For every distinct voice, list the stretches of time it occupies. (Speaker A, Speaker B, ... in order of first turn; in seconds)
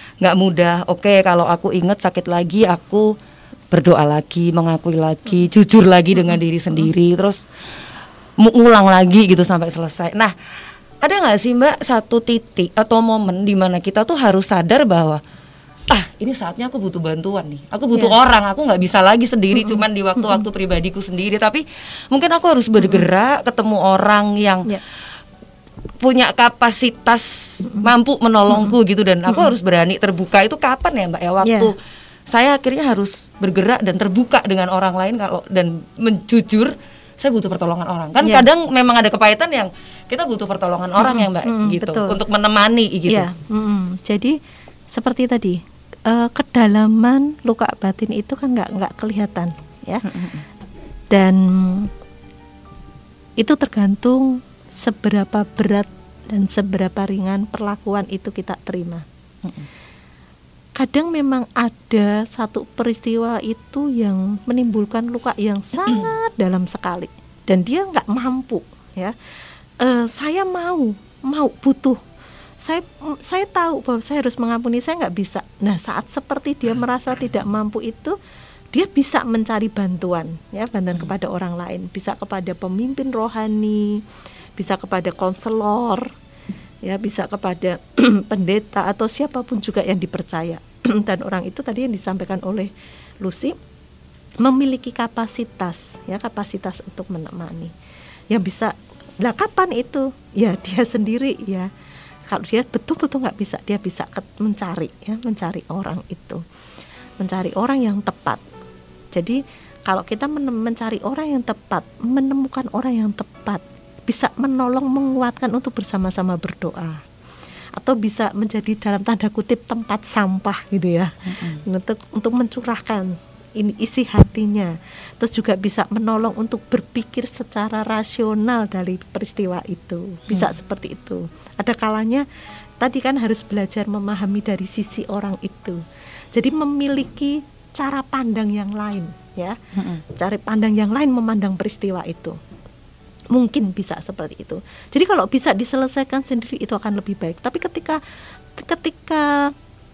Speaker A: 0.2-3.2, 3.7-7.5, 8.4-10.3, 11.0-15.2, 15.9-24.7, 26.0-31.8, 32.3-43.3, 50.0-50.4, 121.3-121.6, 139.8-140.0
Speaker B: 31.4-31.7, 38.2-38.5, 41.0-42.2, 43.1-44.4, 44.9-50.3, 51.1-51.9, 53.4-59.0, 60.8-69.2, 69.8-72.0, 72.6-78.2, 78.7-84.0, 84.6-86.1, 86.8-92.7, 93.2-93.6, 94.4-97.7, 98.3-101.7, 102.3-106.4, 107.2-108.4, 109.1-117.0, 117.8-132.2, 132.8-135.8, 136.3-139.6, 140.1-142.4, 143.3-148.0, 148.6-149.5